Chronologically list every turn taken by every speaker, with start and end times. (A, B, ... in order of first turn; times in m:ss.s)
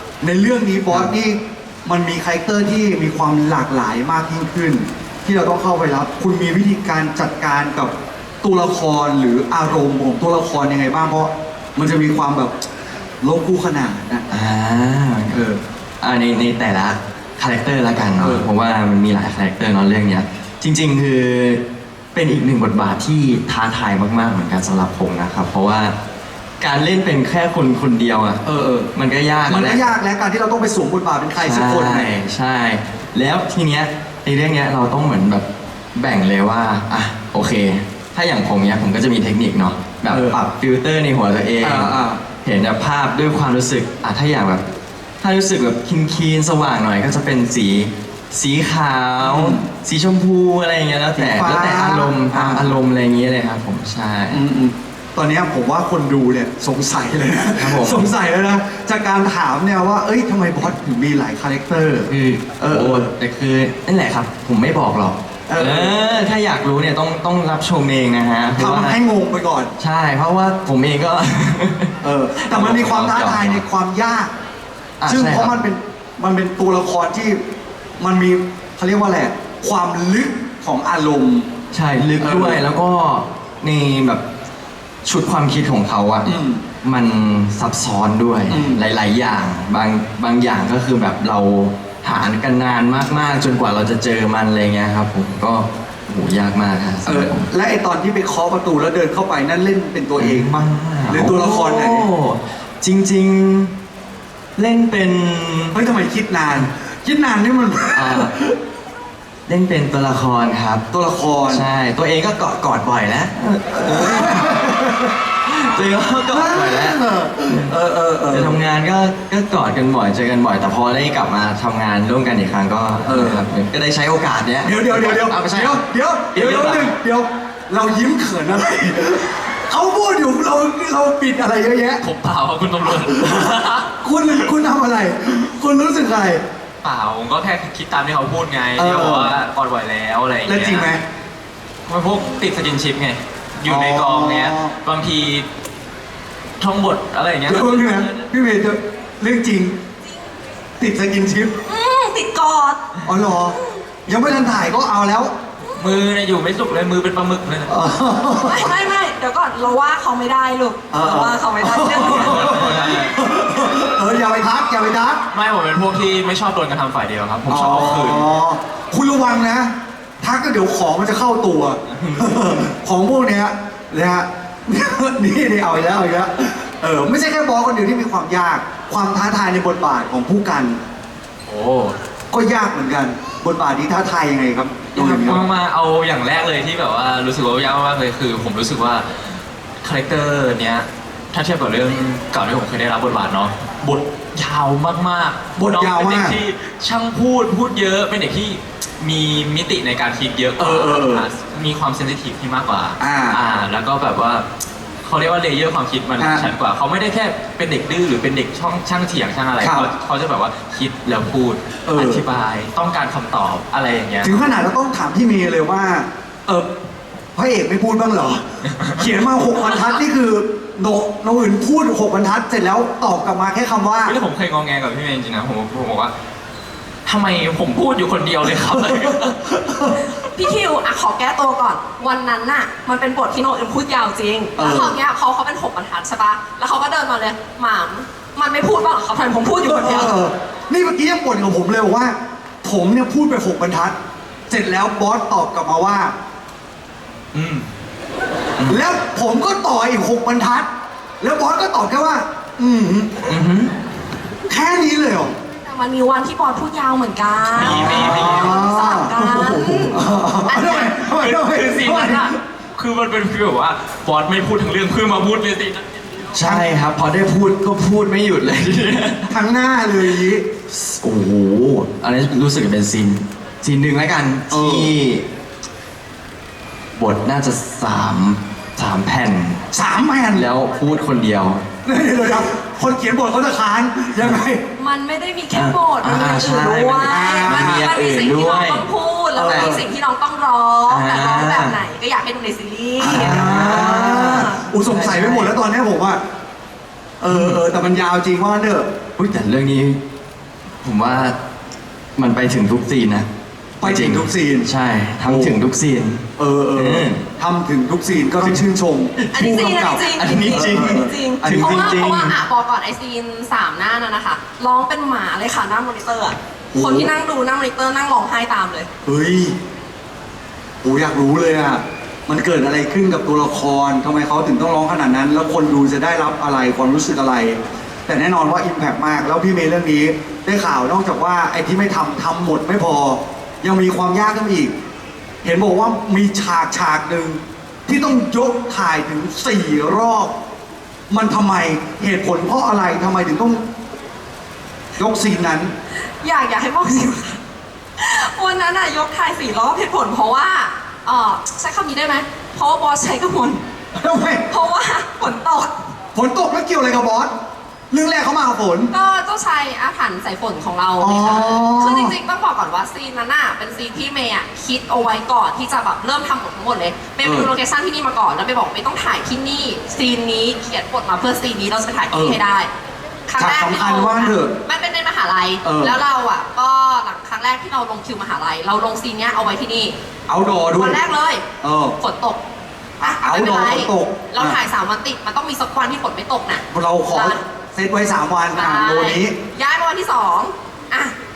0:00.2-0:12.5 A
0:13.2-0:14.3 A
0:14.3-0:15.4 B
0:15.3-0:15.6 A
0:16.0-0:21.6 B
0:18.2-0:18.5 A
0:22.1-0:25.9 B
0:26.6-0:29.9 B
0:28.5-0:28.9 A
0:29.5-0:32.1 A
0:31.4-0:44.6 B
0:40.1-0:40.4 A
0:41.6-0:42.2 A
0:45.2-0:54.4 B
0:49.2-0:49.6 A
0:51.2-0:52.8 A
0:54.3-1:02.1 A
0:57.6-0:58.1 B
1:02.0-1:09.0 B
1:02.6-1:03.1 A
1:05.5-1:06.0 A
1:08.6-1:09.8 A
1:09.8-1:13.6 B
1:12.0-1:14.3 A
1:15.0-1:15.6 B
1:15.1-1:17.4 A
1:18.0-1:21.5 A
1:21.7-1:24.2 B
1:22.2-1:22.6 A
1:25.0-1:37.5 B
1:26.2-1:26.6 A
1:28.5-1:28.8 A
1:37.1-1:40.6 A
1:40.2-1:43.8 B
1:41.1-1:42.0 A
1:44.6-1:45.8 B
1:45.7-1:48.5 A
1:47.9-1:48.3 B
1:49.5-1:50.8 B
1:50.9-1:51.6 A
1:51.5-1:54.5 B
1:53.8-1:55.1 A
1:55.5-1:57.8 B
1:56.3-1:58.6 A
1:58.3-2:05.8 B
2:03.0-2:03.5 A
2:04.6-2:12.0 A
2:06.4-2:06.9 C
2:12.0-2:13.9 C
2:14.0-2:16.4 A
2:16.8-2:20.9 C
2:18.8-2:19.4 A
2:20.4-2:21.0 A
2:21.9-2:25.5 C
2:23.7-2:24.7 A
2:26.6-2:28.1 C
2:27.5-2:29.8 A
2:30.8-2:31.5 A
2:31.7-2:32.8 D
2:33.0-2:35.3 A
2:35.8-2:37.7 C
2:37.7-2:38.7 A
2:38.4-2:42.4 D
2:40.9-2:45.2 A
2:41.9-2:43.2 C
2:42.3-2:43.1 B
2:45.3-2:48.3 C
2:47.5-3:00.8 A
2:52.0-2:52.6 B
3:01.5-3:02.0 C
3:02.3-3:05.4 A
3:04.9-3:24.4 C
3:15.6-3:16.3 A
3:20.6-3:21.3 A
3:23.0-3:23.4 A
3:25.0-3:34.5 C
3:26.2-3:26.5 A
3:29.6-3:29.9 A
3:31.9-3:32.2 A
3:34.2-3:36.7 A
3:37.4-3:44.2 A
3:44.0-3:46.1 C
3:47.1-3:49.4 C
3:48.9-3:50.0 A
3:50.3-4:00.1 D
3:54.6-3:55.0 A
3:59.6-4:04.0 A
4:04.5-4:06.1 A
4:07.3-4:07.7 C
4:08.7-4:10.7 A
4:11.2-4:13.2 A
4:13.3-4:13.7 B
4:14.5-4:15.4 A
4:15.6-4:20.9 D
4:17.5-4:18.6 C
4:17.6-4:18.6 B
4:17.7-4:22.3 A
4:21.0-4:22.2 C
4:21.8-4:22.3 D
4:22.8-4:25.8 C
4:26.3-4:29.3 B
4:29.3-4:30.4 A
4:30.7-4:35.2 B
4:34.5-4:34.9 A
4:37.0-4:39.6 B
4:39.7-4:40.4 A
4:40.3-4:41.7 B
4:41.8-4:44.6 A
4:44.8-4:53.5 D
4:45.5-4:48.9 B
4:47.1-4:47.9 A
4:49.4-4:49.8 A
4:49.5-4:49.8 B
4:50.9-4:51.8 B
4:53.0-4:56.2 A
4:53.1-4:55.6 B
4:57.2-4:58.9 A
4:57.3-4:57.6 B
4:59.2-5:00.0 B
5:00.8-5:01.4 B
5:02.2-5:03.3 B
5:03.8-5:04.7 A
5:03.8-5:07.2 B
5:05.2-5:05.6 A
5:06.4-5:12.0 A
5:09.3-5:18.9 D
5:10.0-5:12.4 B
5:16.7-5:17.1 A
5:19.0-5:19.6 A
5:20.8-5:34.7 A
5:35.4-5:40.3 A
5:41.1-5:43.7 A
5:45.0-5:45.7 A
5:46.2-5:47.4 D
5:48.0-5:53.6 D
5:54.0-5:54.4 A
5:54.5-5:55.7 D
5:56.2-5:57.3 A
5:57.9-5:58.9 A
5:58.9-6:12.7 D
6:01.0-6:02.1 A
6:07.2-6:07.5 A
6:12.1-6:12.4 A
6:13.3-6:20.0 D
6:13.4-6:14.5 A
6:15.6-6:16.0 A
6:20.3-6:21.0 A
6:20.7-6:21.4 D
6:21.6-6:22.0 A
6:22.0-6:22.4 D
6:23.0-6:24.6 A
6:23.0-6:27.4 D
6:26.7-6:29.3 A
6:28.5-6:31.1 D